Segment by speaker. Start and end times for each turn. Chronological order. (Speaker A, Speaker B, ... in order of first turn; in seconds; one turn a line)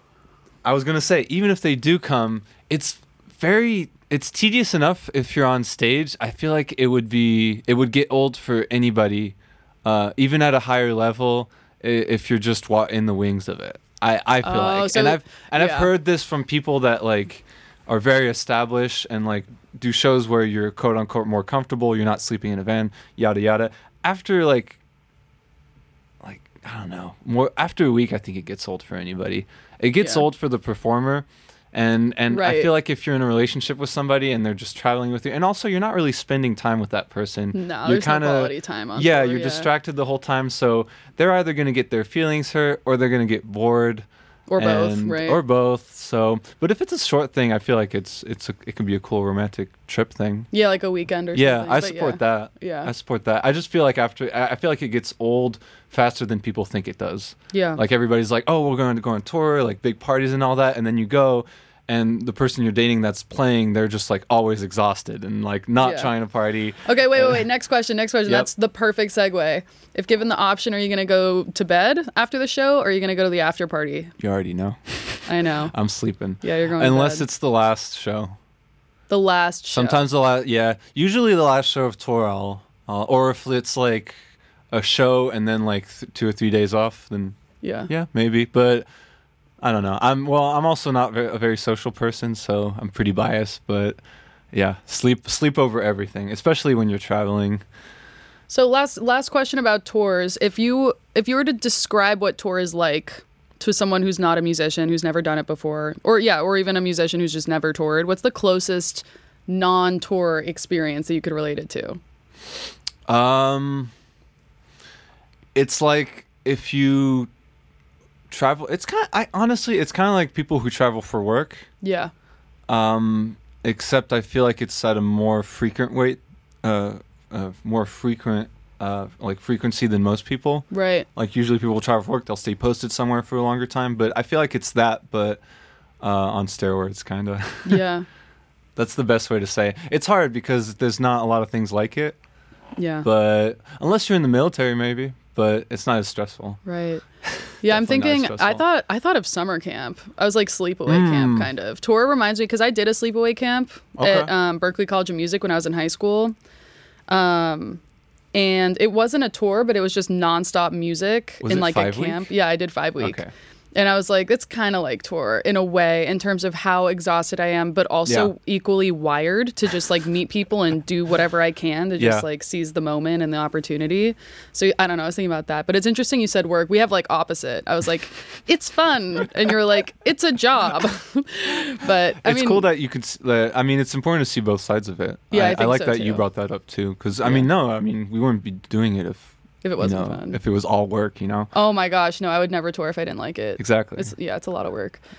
Speaker A: 0.6-24.8
Speaker B: 14.4-15.9
Speaker A: 26.2-44.1
Speaker B: 32.3-32.7
Speaker B: 37.5-39.7
Speaker B: 44.5-45.4
Speaker A: 44.6-50.5
Speaker B: 50.5-52.9
Speaker A: 51.3-67.5
Speaker B: 57.5-57.8
Speaker B: 65.8-66.1
Speaker B: 66.8-74.1
Speaker A: 74.2-78.3
Speaker B: 75.3-75.7
Speaker B: 76.4-77.3
Speaker B: 79.1-80.0
Speaker A: 79.7-84.2
Speaker A: 84.7-87.4
Speaker B: 87.6-87.9
Speaker A: 87.9-88.9
Speaker A: 89.6-94.0
Speaker A: 94.5-97.7
Speaker B: 98.5-112.0
Speaker A: 113.1-113.9
Speaker A: 115.5-117.3
Speaker A: 118.3-121.7
Speaker B: 121.8-122.1
Speaker A: 122.7-135.4
Speaker B: 130.7-131.1
Speaker A: 136.0-137.8
Speaker B: 137.7-138.1
Speaker A: 138.8-142.2
Speaker B: 142.8-143.1
Speaker A: 143.0-146.6
Speaker B: 146.7-147.0
Speaker A: 147.3-148.6
Speaker B: 147.6-156.3
Speaker A: 150.9-151.5
Speaker A: 154.0-154.3
Speaker B: 157.1-157.8
Speaker B: 158.3-163.2
Speaker A: 161.4-162.3
Speaker A: 163.0-163.3
Speaker B: 163.8-182.7
Speaker A: 168.1-168.3
Speaker A: 172.0-172.2
Speaker A: 182.2-189.3
Speaker B: 185.3-186.2
Speaker B: 187.2-187.5
Speaker B: 189.6-190.4
Speaker A: 189.8-191.5
Speaker B: 191.5-195.0
Speaker A: 193.6-194.1